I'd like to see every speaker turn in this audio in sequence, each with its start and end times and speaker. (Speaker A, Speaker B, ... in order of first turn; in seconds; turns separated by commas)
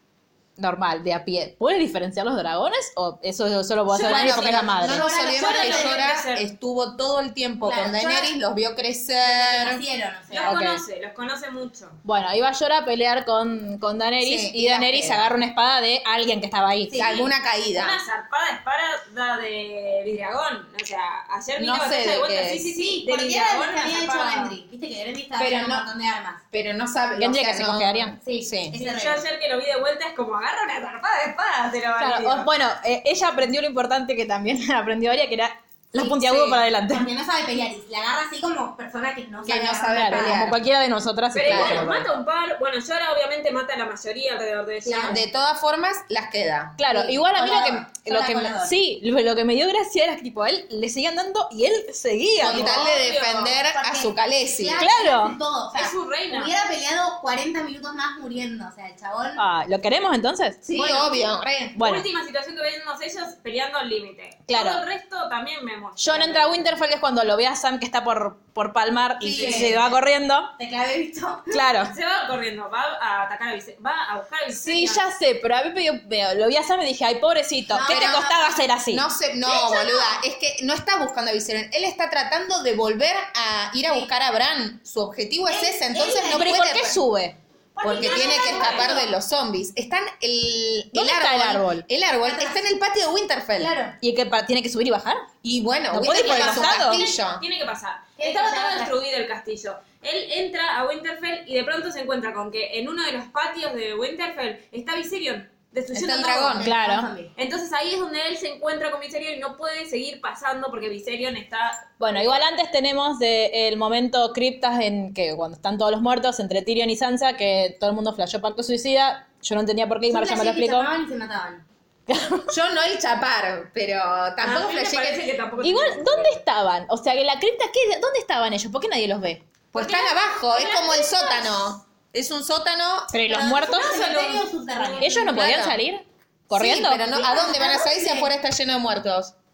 Speaker A: 0.6-5.0, Speaker B: 3.9-9.8, Speaker C: 3.9-6.1, Speaker D: 5.2-6.5, Speaker C: 7.6-8.3, Speaker C: 9.2-10.6, Speaker D: 10.3-12.0, Speaker A: 10.4-10.8, Speaker A: 12.0-17.1, Speaker B: 14.2-15.3, Speaker C: 16.9-17.3, Speaker B: 16.9-18.0, Speaker D: 17.7-24.6, Speaker B: 21.6-22.7, Speaker C: 22.7-26.4, Speaker B: 25.4-25.9, Speaker B: 26.5-28.8, Speaker A: 27.2-28.1, Speaker C: 28.2-29.3, Speaker D: 28.7-32.5, Speaker A: 32.0-37.1, Speaker C: 36.0-40.5, Speaker B: 36.1-36.6, Speaker B: 39.5-40.6, Speaker A: 39.9-42.1, Speaker D: 41.3-45.2, Speaker B: 41.5-41.9, Speaker C: 44.9-45.2, Speaker B: 45.1-46.8, Speaker A: 46.8-52.8, Speaker C: 46.9-48.7, Speaker B: 52.4-54.9, Speaker D: 52.4-53.6, Speaker C: 53.7-59.4, Speaker A: 54.8-55.4, Speaker D: 55.7-56.5, Speaker A: 59.4-60.6, Speaker B: 60.6-61.8, Speaker C: 60.7-61.3, Speaker A: 61.8-62.1, Speaker D: 61.8-66.7, Speaker A: 64.5-64.8, Speaker A: 66.0-70.5, Speaker C: 69.2-70.0, Speaker B: 69.2-69.8, Speaker C: 70.6-71.6, Speaker A: 71.5-71.9, Speaker D: 71.8-75.1, Speaker A: 74.5-79.1, Speaker C: 77.7-78.6, Speaker B: 77.8-78.3, Speaker B: 78.9-87.0, Speaker C: 79.4-80.2, Speaker C: 85.5-86.7, Speaker A: 86.3-87.4, Speaker C: 87.8-89.1, Speaker B: 87.8-93.7, Speaker D: 88.0-89.0, Speaker A: 90.9-91.8, Speaker C: 92.2-92.6, Speaker C: 93.6-93.9, Speaker A: 94.0-95.3, Speaker B: 95.4-97.4, Speaker A: 95.9-97.0, Speaker D: 96.1-106.6, Speaker C: 98.2-98.9, Speaker B: 105.9-106.7, Speaker A: 106.6-107.1, Speaker C: 106.6-107.3, Speaker D: 107.3-112.4, Speaker A: 112.0-120.9, Speaker C: 120.1-121.6, Speaker A: 122.1-122.5, Speaker B: 122.5-125.3, Speaker D: 124.4-126.4, Speaker A: 125.6-129.4, Speaker B: 129.7-133.2, Speaker D: 129.7-131.5, Speaker A: 133.1-134.0, Speaker C: 133.3-135.3, Speaker D: 133.6-135.4, Speaker A: 135.0-137.1, Speaker B: 135.2-135.8, Speaker B: 136.5-139.3, Speaker C: 137.1-138.3